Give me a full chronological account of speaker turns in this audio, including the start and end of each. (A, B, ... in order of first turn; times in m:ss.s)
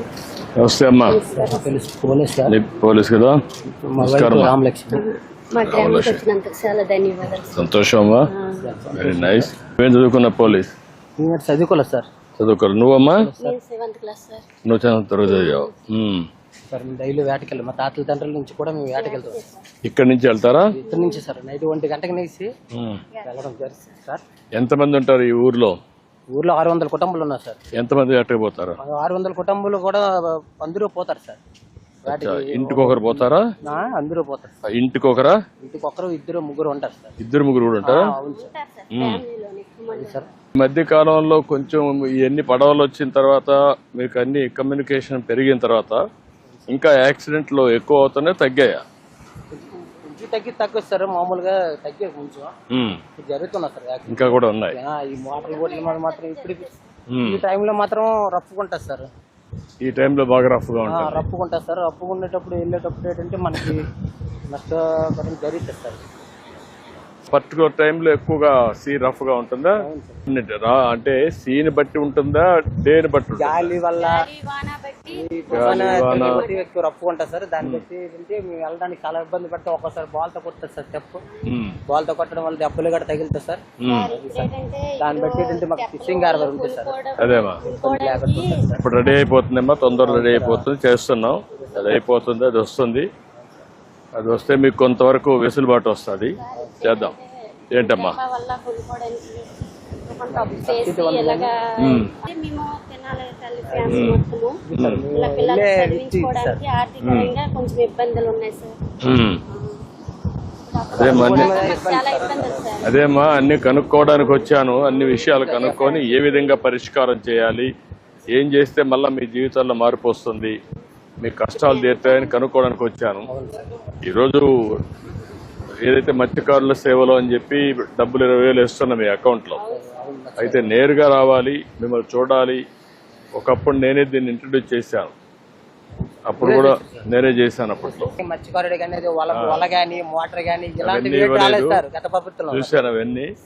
0:00.6-0:01.2 A
0:01.0-0:01.7 B
0:01.3-0:02.6 C
0:02.5-0:03.4 A
0:03.8-0:05.0 C
0:04.0-0:04.5 A
0:04.9-0:07.7 B
0:05.6-0:06.2 A
0:07.5-0:08.3 A
0:08.3-0:08.7 B
0:08.6-0:09.5 C
0:08.9-0:10.7 A
0:11.2-0:12.1 C
0:12.4-0:13.3 A
0:13.0-0:13.6 C
0:13.4-0:14.5 B
0:14.6-0:16.3 A
0:15.2-0:15.7 B
0:16.7-0:19.4 C
0:18.9-0:19.7 B
0:19.8-0:20.7 A
0:20.7-0:22.5 C
0:20.9-0:21.2 B
0:22.7-0:23.0 A
0:23.2-0:24.2 C
0:24.5-0:25.8 A
0:26.3-0:27.6 C
0:27.7-0:28.8 A
0:28.8-0:31.4 C
0:32.0-0:33.5 A
0:32.0-0:34.5 C
0:34.6-0:35.4 A
0:35.6-0:37.1 C
0:37.2-0:38.1 A
0:37.8-0:38.5 C
0:38.0-0:40.2 B
0:38.9-0:39.2 A
0:39.9-0:40.3 C
0:40.6-0:46.0 A
0:46.7-0:48.8 A
0:49.5-0:52.5 C
0:52.7-0:53.0 A
0:53.2-0:56.7 C
0:54.1-0:54.8 A
0:55.2-0:56.9 B
0:57.1-0:57.4 A
0:57.2-0:59.1 C
0:59.8-1:01.3 A
1:00.8-1:03.9 C
1:04.5-1:06.0 C
1:07.3-1:13.8 A
1:09.8-1:10.2 C
1:13.4-1:14.3 C
1:14.0-1:16.6 B
1:15.1-1:21.2 C
1:15.5-1:16.4 A
1:21.5-1:21.8 A
1:21.9-1:24.5 C
1:23.8-1:24.1 A
1:23.8-1:28.6 B
1:25.0-1:27.0 C
1:27.2-1:27.6 A
1:27.6-1:28.9 C
1:28.8-1:33.1 A
1:30.0-1:30.7 C
1:31.5-1:32.0 C
1:34.2-1:37.2 A
1:36.4-1:39.5 B
1:36.5-1:36.9 C
1:37.7-1:38.2 A
1:40.0-1:44.6 B
1:40.3-1:41.5 C
1:41.8-1:42.1 A
1:43.6-1:44.1 C
1:43.9-1:44.2 A
1:44.7-1:46.6 C
1:45.1-1:48.7 B
1:47.0-1:47.3 A
1:49.0-1:49.4 A
1:50.7-1:52.8 B
1:50.9-1:51.8 A
1:51.0-1:52.7 C
1:52.8-1:57.7 A
1:55.0-1:56.6 B
1:55.2-1:56.2 C
1:58.3-2:00.6 A
2:01.2-2:03.3 A
2:01.6-2:02.4 B
2:03.2-2:03.7 C
2:04.0-2:04.5 A
2:05.8-2:09.6 A
2:09.5-2:09.8 B
2:09.7-2:10.8 C
2:10.4-2:12.6 A
2:13.3-2:15.1 A
2:16.3-2:18.1 A
2:16.4-2:17.1 C
2:17.8-2:22.8 C
2:19.3-2:19.6 A
2:20.8-2:21.8 A
2:22.5-2:23.3 A